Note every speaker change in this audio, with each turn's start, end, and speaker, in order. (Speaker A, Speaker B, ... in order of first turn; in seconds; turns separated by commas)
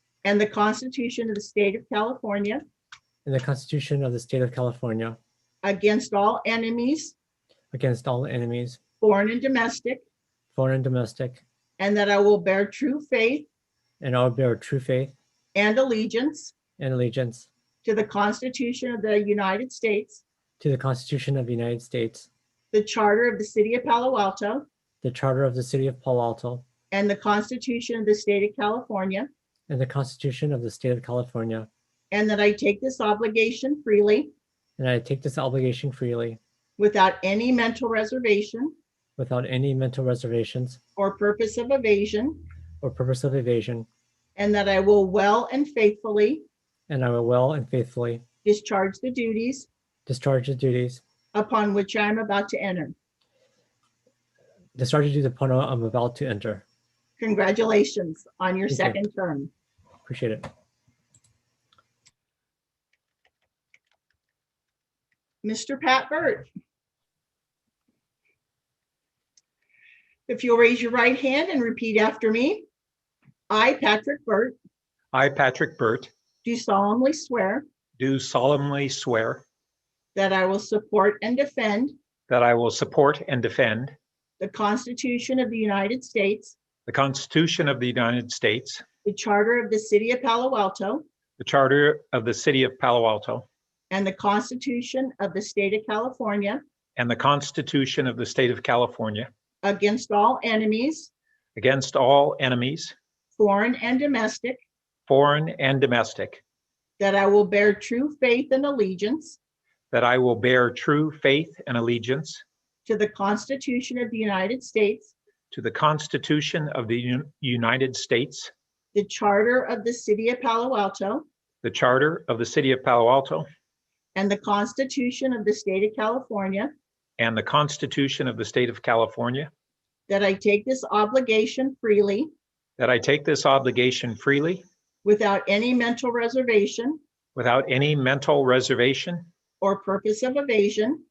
Speaker A: 0.2-2.6, Speaker B: 3.2-5.2, Speaker A: 5.6-7.1, Speaker B: 7.7-8.8, Speaker A: 9.0-10.0, Speaker B: 10.5-11.4, Speaker A: 11.8-13.4, Speaker B: 14.0-15.1, Speaker A: 15.5-16.5, Speaker B: 16.8-17.5, Speaker A: 17.8-20.2, Speaker B: 20.6-22.3, Speaker A: 22.7-24.6, Speaker B: 25.0-26.6, Speaker A: 26.9-29.3, Speaker B: 29.7-31.7, Speaker A: 32.1-34.3, Speaker B: 34.8-36.4, Speaker A: 36.8-38.7, Speaker B: 39.2-40.8, Speaker A: 41.0-42.4, Speaker B: 42.8-43.9, Speaker A: 44.4-46.4, Speaker B: 46.9-48.2, Speaker A: 48.4-49.7, Speaker B: 50.1-51.0, Speaker A: 51.3-52.9, Speaker B: 54.7-56.6, Speaker A: 57.2-59.5, Speaker B: 58.7-59.0, Speaker B: 60.0-60.5, Speaker A: 65.4-66.5, Speaker A: 70.3-72.7, Speaker A: 73.5-74.5, Speaker C: 75.1-76.1, Speaker A: 76.4-77.6, Speaker C: 78.0-79.4, Speaker A: 80.1-81.9, Speaker C: 82.3-84.0, Speaker A: 84.4-86.5, Speaker C: 86.8-88.8, Speaker A: 89.0-91.0, Speaker C: 91.4-93.5, Speaker A: 93.9-96.6, Speaker C: 97.0-99.3, Speaker A: 99.6-101.1, Speaker C: 101.5-102.9, Speaker A: 103.3-104.6, Speaker C: 105.1-106.4, Speaker A: 107.0-109.4, Speaker C: 109.9-112.4, Speaker A: 112.8-115.1, Speaker C: 115.5-118.5, Speaker A: 118.9-121.2, Speaker C: 121.6-123.5, Speaker A: 124.1-126.7, Speaker C: 127.2-129.5, Speaker A: 130.1-132.3, Speaker C: 132.8-134.6, Speaker A: 135.0-137.0, Speaker C: 137.3-139.3, Speaker A: 139.6-141.0